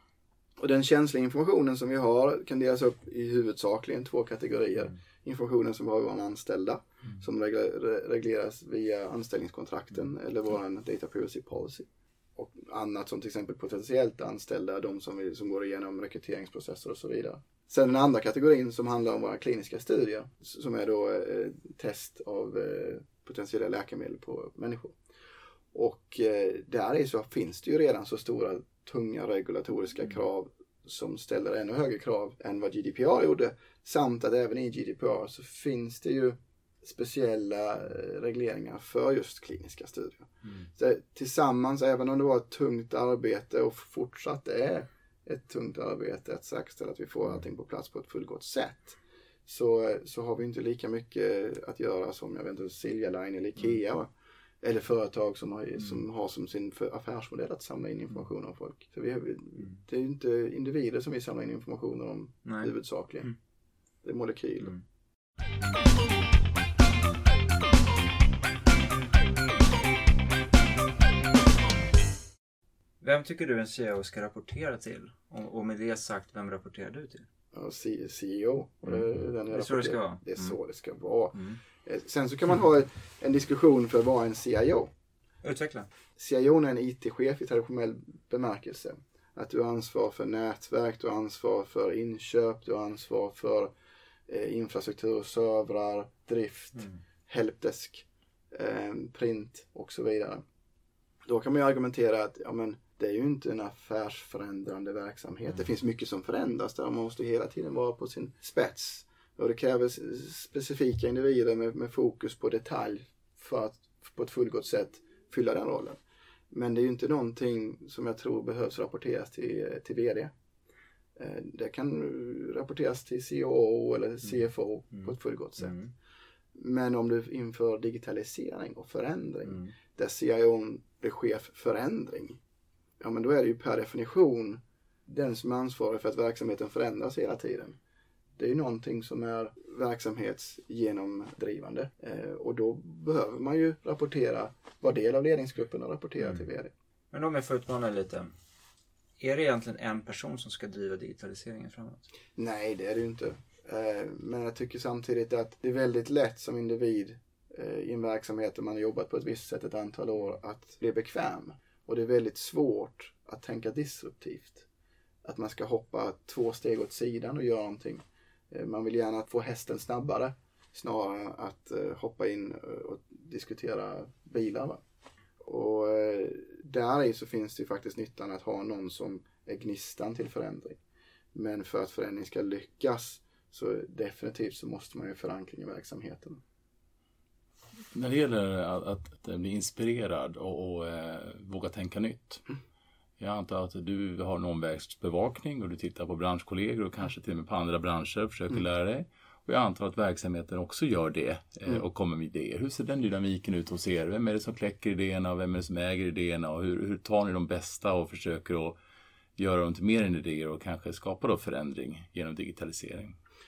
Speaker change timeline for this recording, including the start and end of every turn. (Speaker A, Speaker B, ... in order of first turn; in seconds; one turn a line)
Speaker A: 0.6-25.0
Speaker A: 25.7-54.1
Speaker A: 54.6-63.3
Speaker B: 62.4-62.7
Speaker A: 64.0-64.7
Speaker B: 73.0-77.3
Speaker A: 77.5-84.9
Speaker B: 78.9-80.6
Speaker B: 85.4-85.9
Speaker A: 86.2-93.7
Speaker A: 94.3-100.4
Speaker A: 101.2-120.3
Speaker A: 121.2-125.8
Speaker B: 124.9-125.9
Speaker A: 126.5-132.4
Speaker B: 129.4-129.7
Speaker A: 133.0-137.8
Speaker A: 138.4-146.7
Speaker B: 147.1-148.3
Speaker B: 149.2-152.1
Speaker A: 152.3-164.7
Speaker A: 165.2-174.8
Speaker A: 175.4-180.8
Speaker A: 181.3-186.4
Speaker C: 187.9-192.4
Speaker C: 193.2-208.8
Speaker C: 209.4-213.2